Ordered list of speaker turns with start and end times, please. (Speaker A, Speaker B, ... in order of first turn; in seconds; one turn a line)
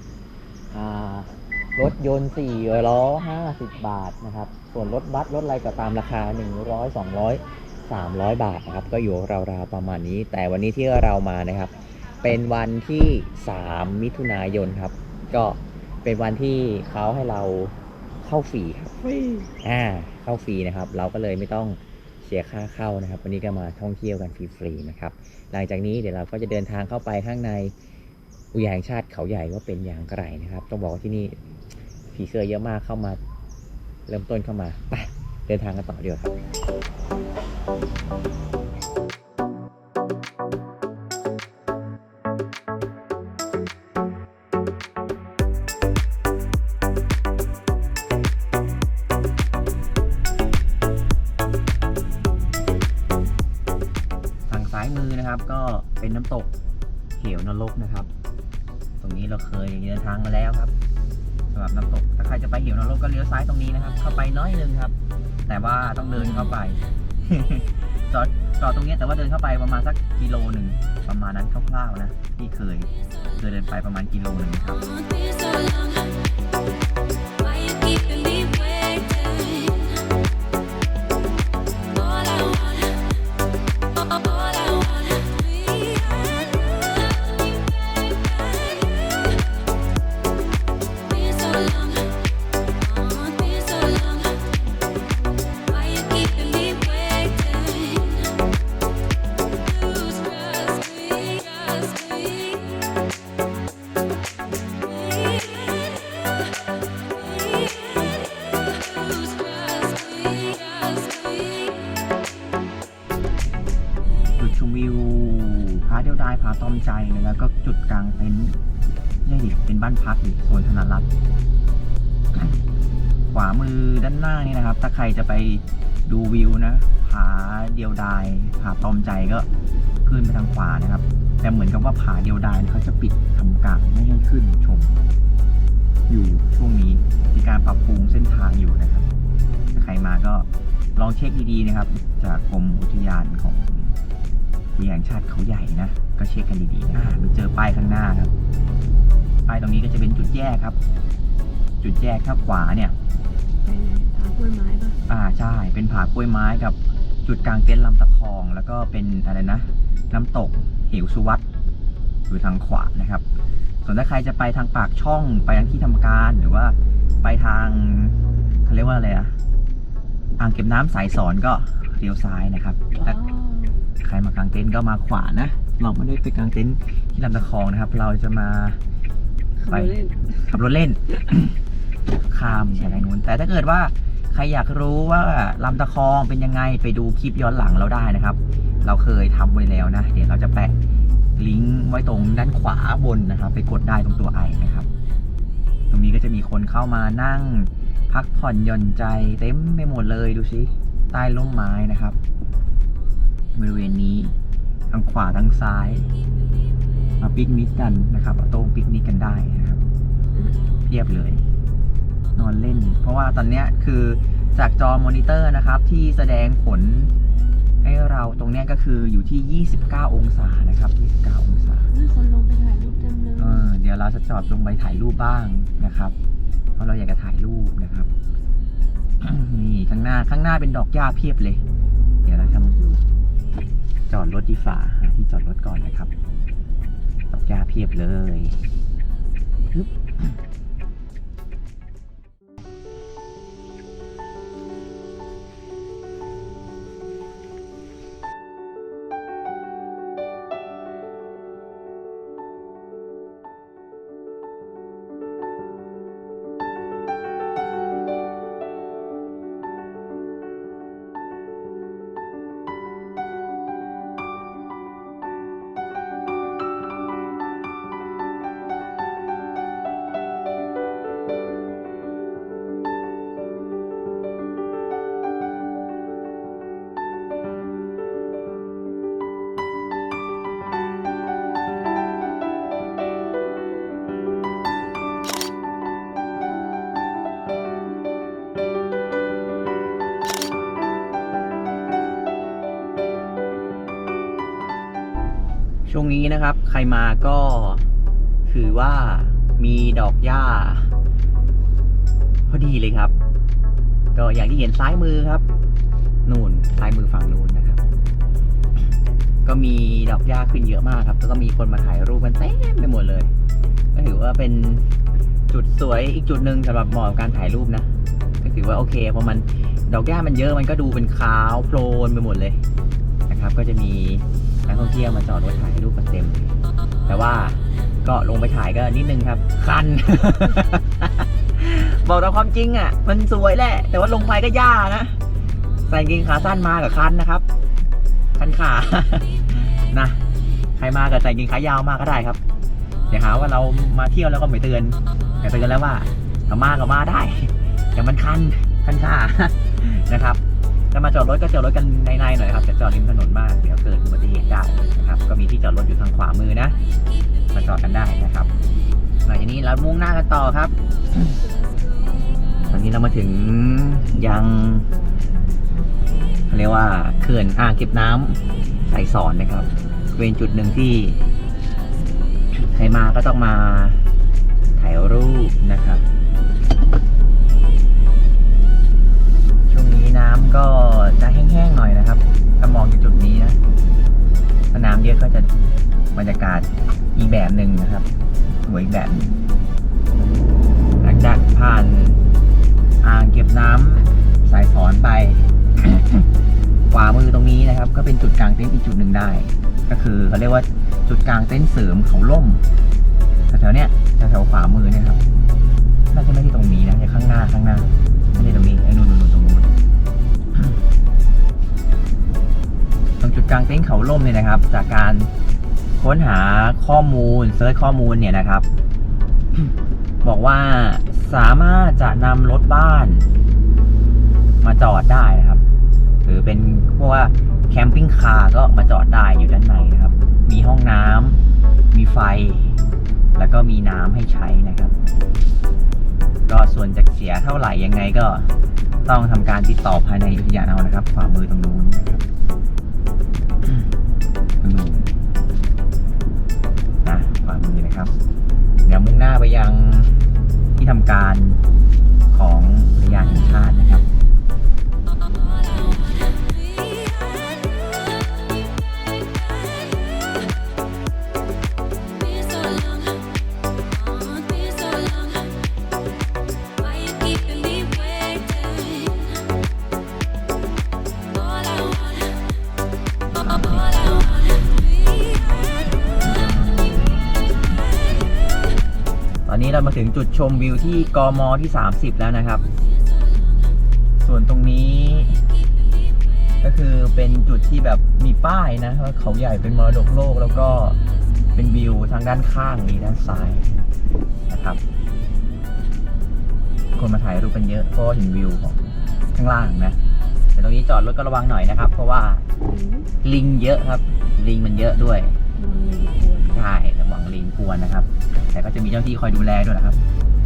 Speaker A: 0.7-19.0
Speaker B: 19.1-19.5
Speaker A: 19.6-27.7
Speaker A: 28.5-31.4
Speaker A: 32.1-33.2
Speaker A: 34.1-36.3
Speaker A: 54.5-56.5
Speaker A: 57.2-58.1
Speaker A: 59.0-60.7
Speaker A: 61.5-64.9
Speaker A: 65.5-74.8
Speaker B: 66.2-66.5
Speaker A: 114.4-118.6
Speaker A: 119.2-121.1
Speaker A: 122.3-122.6
Speaker A: 123.3-129.5
Speaker A: 130.0-135.0
Speaker A: 136.1-139.1
Speaker A: 139.7-143.9
Speaker A: 144.7-148.3
Speaker A: 149.5-150.8
Speaker A: 151.8-152.9
Speaker B: 153.5-155.0
Speaker A: 155.1-161.4
Speaker A: 162.3-163.2
Speaker A: 163.8-169.3
Speaker A: 170.4-173.2
Speaker B: 172.9-173.8
Speaker A: 174.0-178.8
Speaker B: 179.6-180.2
Speaker A: 179.7-181.5
Speaker A: 182.2-190.8
Speaker B: 182.4-183.1
Speaker A: 191.3-194.9
Speaker A: 195.9-202.2
Speaker A: 203.5-204.3
Speaker A: 204.9-206.1
Speaker A: 207.2-209.8
Speaker B: 210.3-210.6
Speaker A: 210.8-211.4
Speaker A: 212.3-217.1
Speaker A: 217.8-221.9
Speaker B: 221.9-223.7
Speaker A: 223.4-226.1
Speaker A: 226.8-228.1
Speaker A: 229.2-231.6
Speaker A: 232.2-232.7
Speaker B: 232.3-233.0
Speaker A: 234.1-236.1
Speaker A: 237.3-238.6
Speaker A: 239.7-240.4
Speaker A: 295.9-297.8
Speaker A: 298.4-300.9
Speaker A: 302.5-303.1
Speaker A: 304.1-305.4
Speaker A: 306.2-307.8
Speaker A: 309.4-313.3
Speaker A: 313.9-314.8
Speaker A: 315.5-317.9
Speaker A: 318.4-322.6
Speaker A: 323.3-326.5
Speaker A: 327.1-335.2
Speaker A: 335.9-337.4
Speaker A: 338.4-340.2
Speaker A: 340.8-342.4
Speaker A: 343.1-350.4
Speaker A: 350.9-356.8
Speaker A: 357.5-358.5
Speaker A: 359.2-361.3
Speaker A: 362.7-364.9
Speaker A: 366.5-371.2
Speaker A: 372.5-374.1
Speaker A: 374.7-376.0
Speaker A: 379.7-383.6
Speaker A: 384.7-385.5
Speaker A: 386.1-388.1
Speaker A: 388.6-389.4
Speaker A: 391.0-392.2
Speaker A: 393.0-396.3
Speaker A: 396.9-402.6
Speaker A: 403.5-405.2
Speaker A: 406.1-409.7
Speaker B: 408.3-408.7
Speaker A: 413.2-415.3
Speaker A: 416.0-418.6
Speaker A: 420.2-423.3
Speaker A: 424.6-425.6
Speaker A: 426.2-431.4
Speaker A: 431.9-432.7
Speaker A: 433.4-434.9
Speaker A: 436.5-438.5
Speaker A: 439.0-442.2
Speaker A: 444.6-445.1
Speaker A: 447.0-448.1
Speaker A: 448.8-450.2
Speaker A: 450.8-451.6
Speaker A: 452.3-454.1
Speaker A: 473.3-474.1
Speaker B: 476.6-477.0
Speaker A: 479.4-482.6
Speaker B: 483.4-483.7
Speaker A: 484.2-485.4
Speaker A: 486.6-491.0
Speaker A: 491.5-493.8
Speaker A: 494.5-494.8
Speaker A: 496.9-500.0
Speaker A: 500.5-502.4
Speaker B: 502.6-503.1
Speaker A: 503.2-505.4
Speaker B: 505.6-506.7
Speaker A: 506.5-510.0